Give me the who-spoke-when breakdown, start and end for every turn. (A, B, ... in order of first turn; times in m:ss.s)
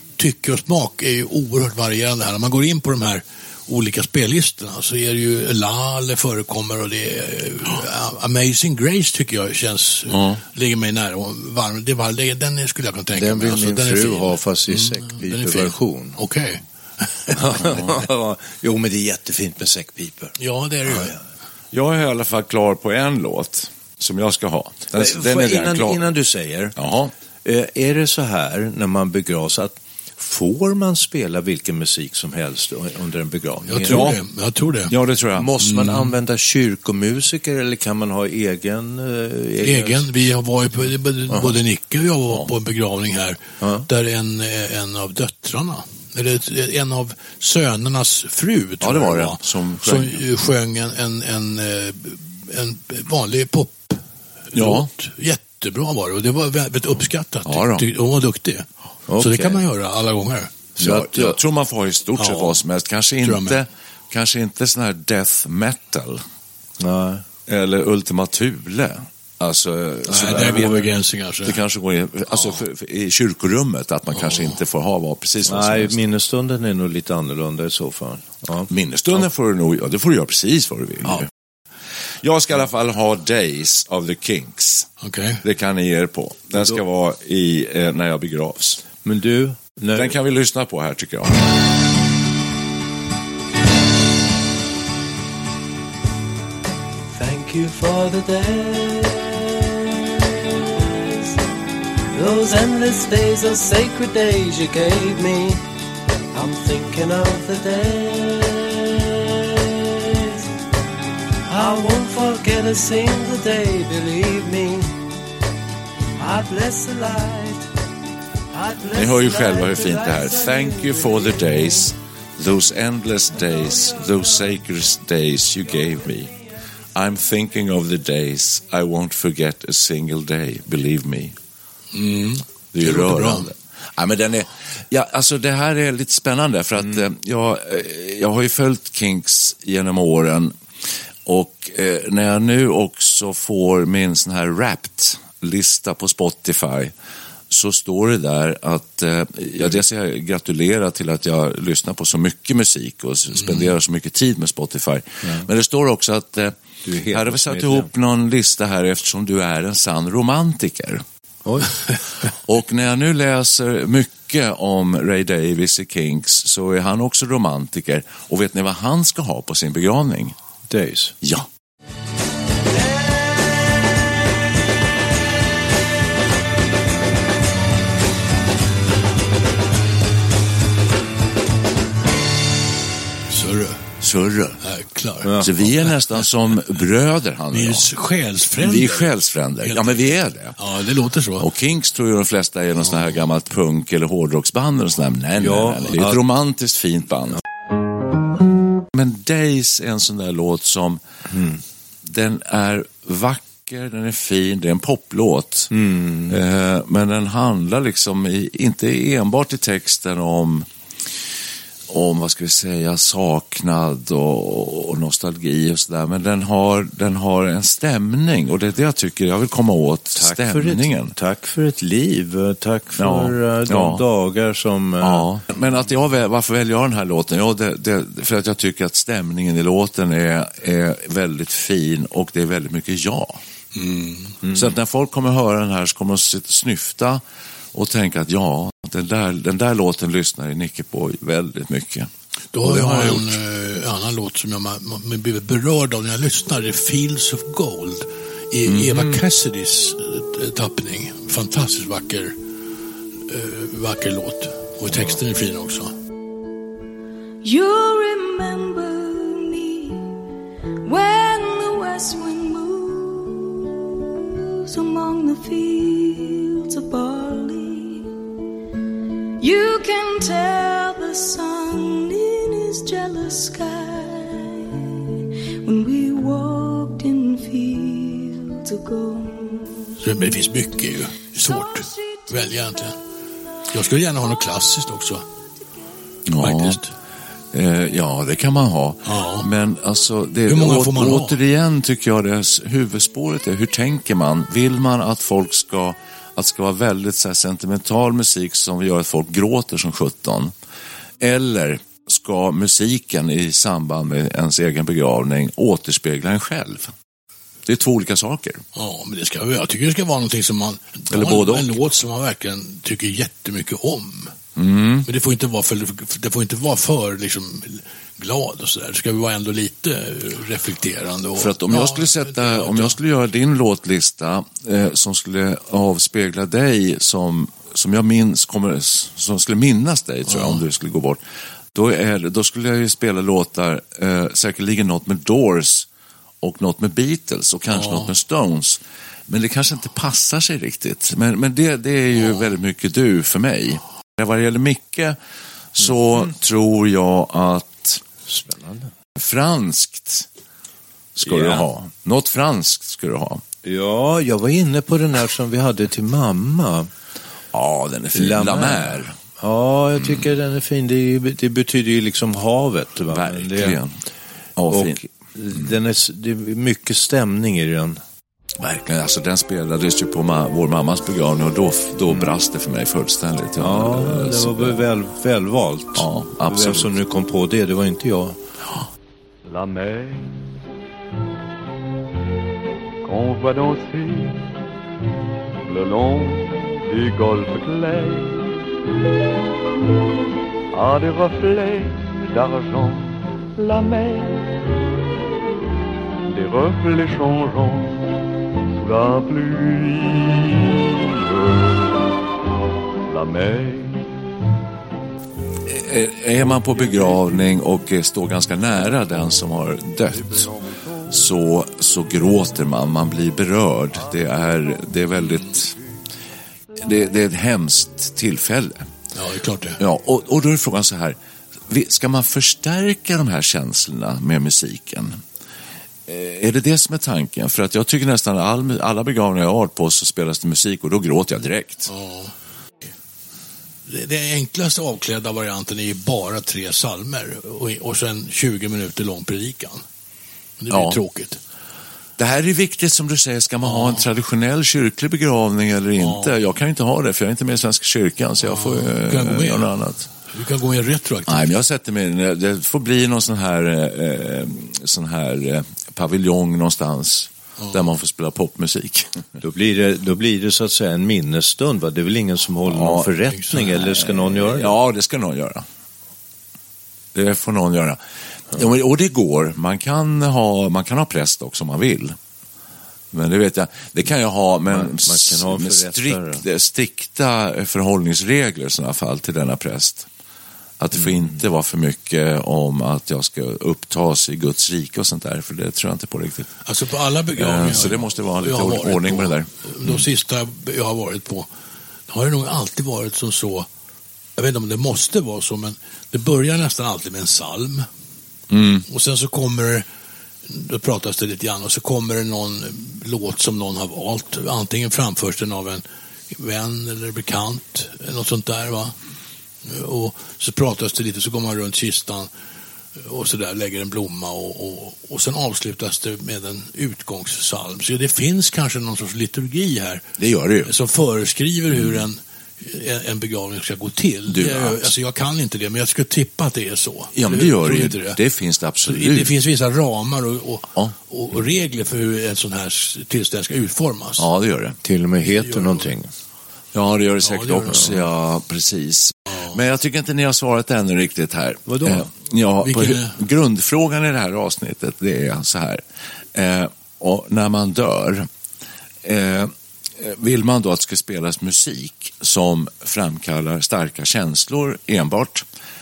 0:00.2-0:17.8 A
0:10.1-0:10.4 B
0:13.2-0:16.2 C
0:17.3-0:21.2 C
0:20.4-0:21.1 A
0:21.7-0:26.1 B
0:25.0-0:26.8 C
0:26.8-0:27.1 B
0:27.4-0:34.1 C
0:33.7-0:34.9 A
0:33.8-0:34.2 B
0:34.9-0:35.5 B
0:35.4-0:40.0 C
0:35.6-0:36.2 A
0:39.6-0:58.7 A
0:41.3-0:41.6 C
0:43.6-0:43.9 C
0:48.8-0:50.2 B
0:54.5-0:54.9 B
0:57.5-0:57.9 B
0:59.1-0:59.6 C
0:59.2-1:00.7 A
1:00.8-1:06.2 B
1:00.8-1:01.4 C
1:02.2-1:02.6 A
1:03.2-1:03.6 A
1:06.8-1:07.2 C
1:07.5-1:10.9 B
1:10.1-1:11.6 A
1:10.1-1:10.8 C
1:11.4-1:16.0 B
1:12.3-1:12.6 A
1:14.2-1:14.5 A
1:15.4-1:18.7 C
1:18.7-1:21.3 B
1:22.2-1:24.9 B
1:25.0-1:25.4 A
1:25.4-1:28.8 B
1:29.0-1:30.1 C
1:30.0-1:31.4 B
1:37.1-1:40.1 D
1:40.8-1:41.4 D
1:42.1-1:45.6 D
1:46.3-1:50.4 D
1:51.5-1:55.0 D
1:56.2-1:57.6 D
1:58.5-2:01.4 D
1:58.9-2:06.4 B
2:06.9-2:11.4 B
2:11.9-2:13.5 A
2:12.7-2:20.6 B
2:21.3-2:26.9 B
2:27.5-2:36.6 B
2:35.2-2:35.5 C
2:36.8-2:37.9 C
2:37.1-2:41.0 B
2:41.4-2:41.9 C
2:42.4-2:50.4 B
2:50.7-2:51.2 C
2:51.2-2:51.5 B
3:03.3-3:03.8 A
3:04.0-3:04.6 B
3:04.6-3:05.3 A
3:05.2-3:05.5 C
3:05.4-3:07.9 B
3:07.5-3:10.0 A
3:08.6-3:10.6 B
3:10.6-3:11.5 A
3:11.4-3:17.4 B
3:15.4-3:16.2 C
3:18.9-3:21.0 B
3:21.3-3:21.6 C
3:22.0-3:25.7 B
3:25.7-3:26.4 C
3:26.3-3:30.7 B
3:31.9-3:41.2 B
3:40.2-3:45.3 C
3:43.0-3:44.0 B
3:45.0-3:53.4 B
3:53.8-3:54.4 A
3:54.4-3:54.8 C
3:54.5-3:57.2 B
3:57.7-4:02.1 B
4:02.5-4:12.3 A
4:02.6-4:03.4 B
4:08.7-4:09.2 B
4:13.3-4:15.9 A
4:17.4-4:20.2 E
4:20.9-4:23.7 E
4:24.3-4:28.1 E
4:29.4-4:40.0 E
4:40.0-4:43.0 A
4:41.4-4:42.8 E
4:43.7-4:45.2 A
4:46.3-4:46.8 B
4:46.4-4:46.9 A
4:47.5-5:00.5 B
4:49.1-4:49.5 A
4:50.5-4:51.4 A
5:01.2-5:06.9 B
5:07.7-5:08.6 B
5:08.8-5:14.3 A
5:11.1-5:11.8 B
5:14.6-5:15.1 B
5:15.1-5:23.0 A
5:21.4-5:31.2 B
5:30.3-5:30.6 A
5:31.7-5:35.9 B
5:36.4-5:45.2 B
5:37.7-5:38.1 A
5:45.8-5:48.0 B
5:48.3-5:48.9 C
5:49.2-5:50.3 B
5:51.2-5:53.4 B
5:51.2-5:51.7 C
5:53.6-5:56.9 C
5:57.5-5:59.2 B
5:58.2-6:03.8 C
6:00.0-6:00.2 B
6:03.1-6:03.9 B
6:04.6-6:05.0 B
6:04.7-6:08.0 C
6:08.6-6:14.8 B
6:13.6-6:18.4 C
6:16.0-6:17.0 B
6:19.4-6:20.5 F
6:23.0-6:24.5 F
6:25.6-6:28.6 F
6:30.7-6:34.6 F
6:36.2-6:38.2 F
6:38.7-6:41.8 F
6:43.1-6:44.1 F
6:45.7-6:50.5 B
6:51.1-6:55.7 B
6:56.8-6:58.9 B
6:59.1-6:59.8 A
6:59.8-7:01.2 B
7:01.7-7:05.2 B
7:06.1-7:11.9 B
7:11.9-7:12.3 A
7:13.9-7:19.8 A
7:20.6-7:21.4 A
7:20.7-7:21.0 B
7:22.2-7:30.1 B
7:23.6-7:24.0 A
7:26.0-7:26.4 A
7:28.4-7:29.7 A
7:30.3-7:31.5 A
7:31.3-7:39.3 B
7:37.6-7:37.8 A
7:39.4-7:44.8 C
7:42.7-7:45.7 B
7:43.3-7:43.7 A
7:47.2-7:48.0 B
7:48.5-7:52.2 B
7:53.1-8:00.1 B
7:54.7-7:56.4 C
8:00.8-8:06.5 B
8:06.7-8:11.5 A
8:07.4-8:10.0 B
8:12.1-8:13.7 A
8:14.4-8:17.9 A
8:18.5-8:18.9 B
8:18.9-8:19.8 A
8:20.5-8:28.9 A
8:29.6-8:32.3 A
8:33.0-8:40.0 A
8:40.2-8:40.7 B
8:40.6-8:48.2 A
8:41.7-8:42.1 B
8:44.3-8:44.9 B
8:47.1-8:49.3 B
8:48.8-8:54.3 A
8:54.2-8:54.8 B
8:54.8-8:56.1 C
8:55.3-8:55.9 A
8:56.7-9:08.3 B
8:57.2-8:57.9 A
9:01.7-9:02.1 C
9:02.6-9:03.2 A
9:09.0-9:15.5 B